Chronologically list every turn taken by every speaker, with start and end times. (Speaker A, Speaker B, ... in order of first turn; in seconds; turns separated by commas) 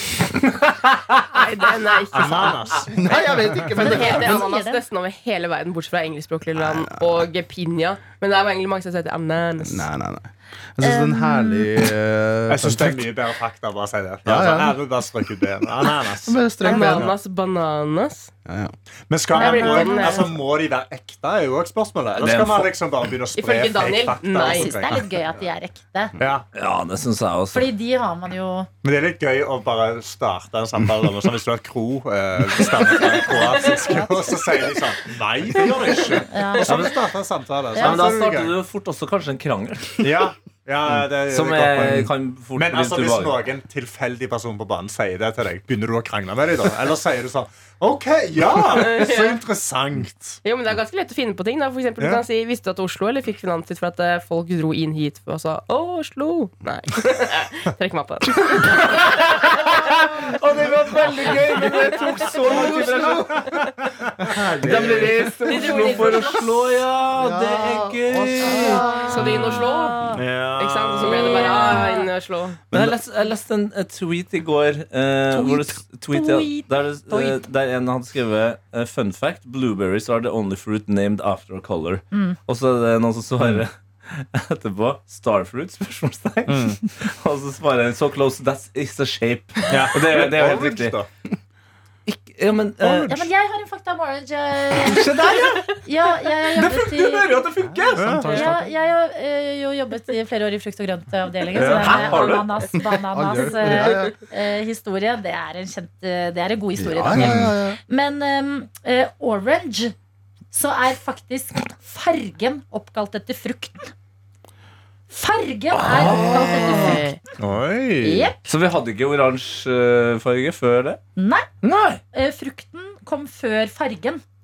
Speaker A: 1.3-2.9, Speaker B: 2.1-3.7, Speaker C: 2.9-4.4, Speaker A: 3.7-9.9, Speaker D: 3.8-4.8, Speaker C: 6.6-7.3, Speaker C: 9.6-13.1, Speaker D: 10.8-11.7, Speaker B: 12.5-17.1, Speaker C: 14.2-14.8, Speaker C: 16.3-17.1, Speaker A: 16.6-18.3, Speaker C: 18.4-18.7, Speaker B: 19.1-25.0, Speaker A: 19.3-20.3, Speaker D: 19.4-20.3, Speaker E: 22.2-22.7, Speaker A: 23.3-24.7, Speaker D: 24.4-26.1, Speaker B: 26.2-26.5, Speaker E: 26.6-27.7, Speaker D: 27.5-28.7, Speaker B: 28.8-38.5, Speaker A: 33.1-33.6, Speaker D: 33.5-34.7, Speaker D: 36.3-36.9, Speaker E: 36.7-37.0, Speaker D: 37.8-38.2, Speaker E: 37.8-40.0, Speaker B: 40.0-50.4, Speaker E: 41.3-43.4, Speaker A: 48.6-49.4, Speaker A: 50.4-59.1, Speaker E: 58.4-63.6, Speaker C: 61.5-63.6, Speaker B: 62.8-65.2, Speaker C: 64.2-66.2, Speaker E: 64.6-68.8, Speaker A: 65.4-66.5, Speaker C: 67.1-69.5, Speaker D: 68.4-70.2, Speaker A: 68.8-72.6, Speaker B: 70.2-71.8, Speaker D: 71.0-72.1, Speaker C: 72.7-73.0, Speaker E: 72.7-91.0, Speaker D: 75.3-77.4, Speaker D: 82.1-82.4, Speaker B: 86.5-86.8, Speaker B: 89.7-91.1, Speaker E: 92.1-93.2, Speaker B: 92.8-93.3, Speaker D: 93.1-97.4, Speaker E: 94.7-95.8, Speaker A: 95.3-95.6, Speaker E: 96.5-98.5, Speaker C: 97.7-98.7, Speaker B: 97.9-98.4, Speaker D: 98.2-110.0, Speaker B: 101.5-102.5, Speaker E: 101.6-102.5, Speaker C: 102.8-104.1, Speaker C: 106.8-107.8, Speaker B: 107.1-107.5, Speaker D: 110.5-113.9, Speaker D: 115.1-117.3, Speaker E: 115.7-117.0, Speaker A: 116.5-117.2, Speaker B: 117.4-118.3, Speaker D: 118.0-118.5, Speaker E: 118.5-121.0, Speaker D: 121.2-121.5, Speaker E: 121.6-122.0, Speaker D: 122.1-124.2